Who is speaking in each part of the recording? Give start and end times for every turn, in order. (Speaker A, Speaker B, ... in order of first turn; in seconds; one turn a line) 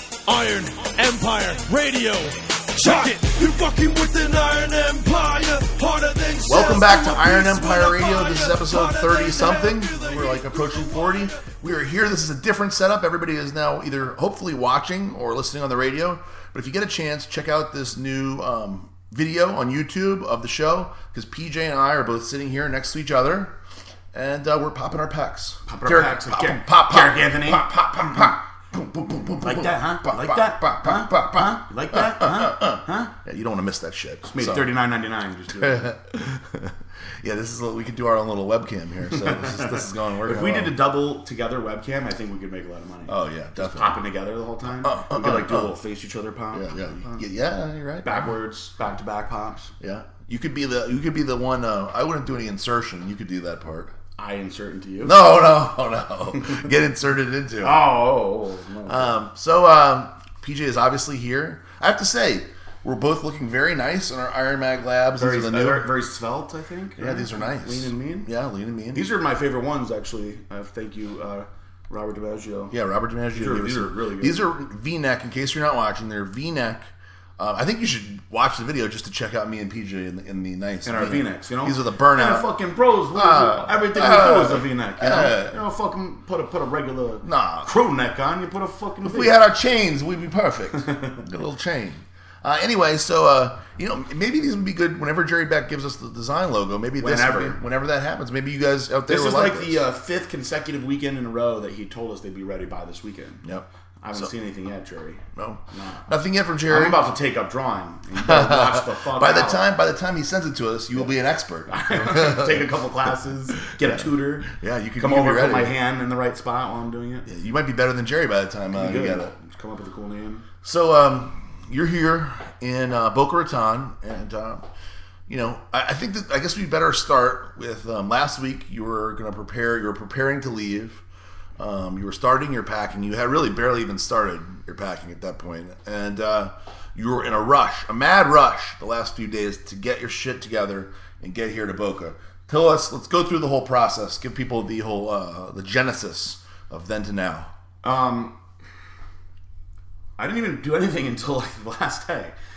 Speaker A: 0.2-11.5
Speaker B: 6.5-23.6
Speaker B: 24.1-34.7
Speaker C: 25.7-28.3
Speaker C: 29.4-33.1
Speaker C: 34.2-35.9
Speaker B: 35.5-40.8
Speaker C: 39.1-47.2
Speaker B: 43.1-44.0
Speaker B: 44.7-45.8
Speaker B: 46.5-48.3
Speaker C: 48.0-49.7
Speaker B: 49.8-54.0
Speaker C: 54.2-55.2
Speaker B: 55.0-57.8
Speaker C: 57.6-59.2
Speaker B: 58.9-65.9
Speaker C: 65.2-68.3
Speaker B: 67.0-69.1
Speaker C: 68.9-72.7
Speaker B: 72.7-82.5
Speaker C: 73.3-74.5
Speaker C: 80.8-89.4
Speaker B: 83.1-85.6
Speaker B: 87.2-87.7
Speaker B: 89.0-99.8
Speaker C: 90.7-91.2
Speaker C: 97.0-97.6
Speaker C: 99.1-103.5
Speaker B: 103.4-104.3
Speaker C: 104.0-106.1
Speaker B: 105.3-107.0
Speaker C: 106.7-109.7
Speaker B: 108.2-112.7
Speaker C: 111.7-117.3
Speaker B: 113.8-115.8
Speaker B: 117.3-119.3
Speaker C: 118.7-120.5
Speaker B: 120.6-124.7
Speaker B: 125.3-131.0
Speaker B: 131.6-147.5
Speaker C: 147.8-148.4
Speaker C: 150.2-152.3